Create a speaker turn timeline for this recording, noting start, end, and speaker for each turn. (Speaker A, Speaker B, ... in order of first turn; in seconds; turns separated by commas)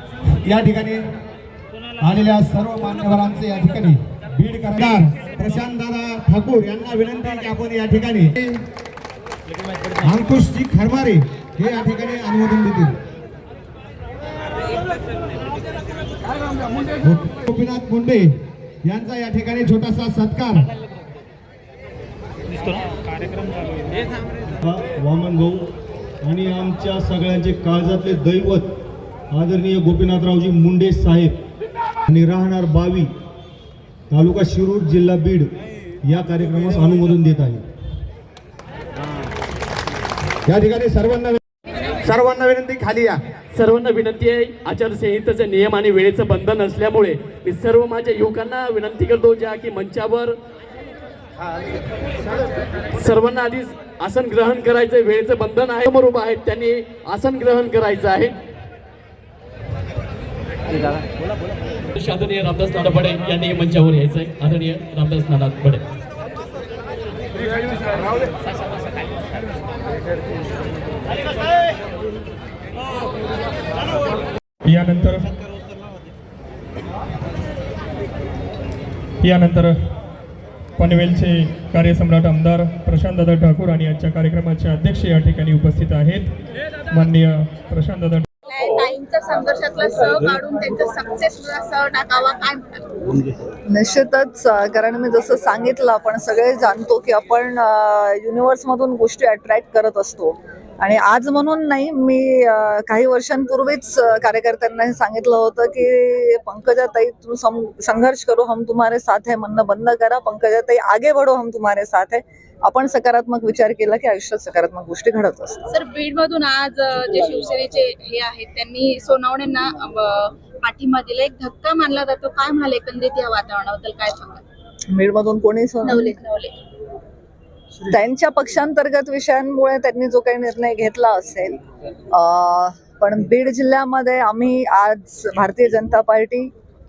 Speaker A: 0.4-1.1, Speaker A: 2.0-8.5, Speaker A: 10.0-13.0, Speaker A: 17.0-20.7, Speaker B: 24.6-25.6, Speaker B: 26.2-28.7, Speaker B: 29.3-31.4, Speaker B: 32.1-33.1, Speaker B: 34.1-35.5, Speaker B: 36.0-37.6, Speaker A: 40.7-41.4, Speaker A: 42.1-43.2, Speaker C: 43.5-50.3, Speaker C: 52.9-58.3, Speaker C: 62.0-65.8, Speaker D: 74.7-75.2, Speaker D: 79.2-79.7, Speaker D: 80.8-86.3, Speaker D: 86.9-88.2, Speaker E: 88.5-93.2, Speaker F: 93.7-115.7, Speaker E: 115.7-124.4, Speaker F: 124.9-126.2, Speaker E: 125.8-126.6, Speaker F: 127.9-131.5, Speaker F: 132.1-136.5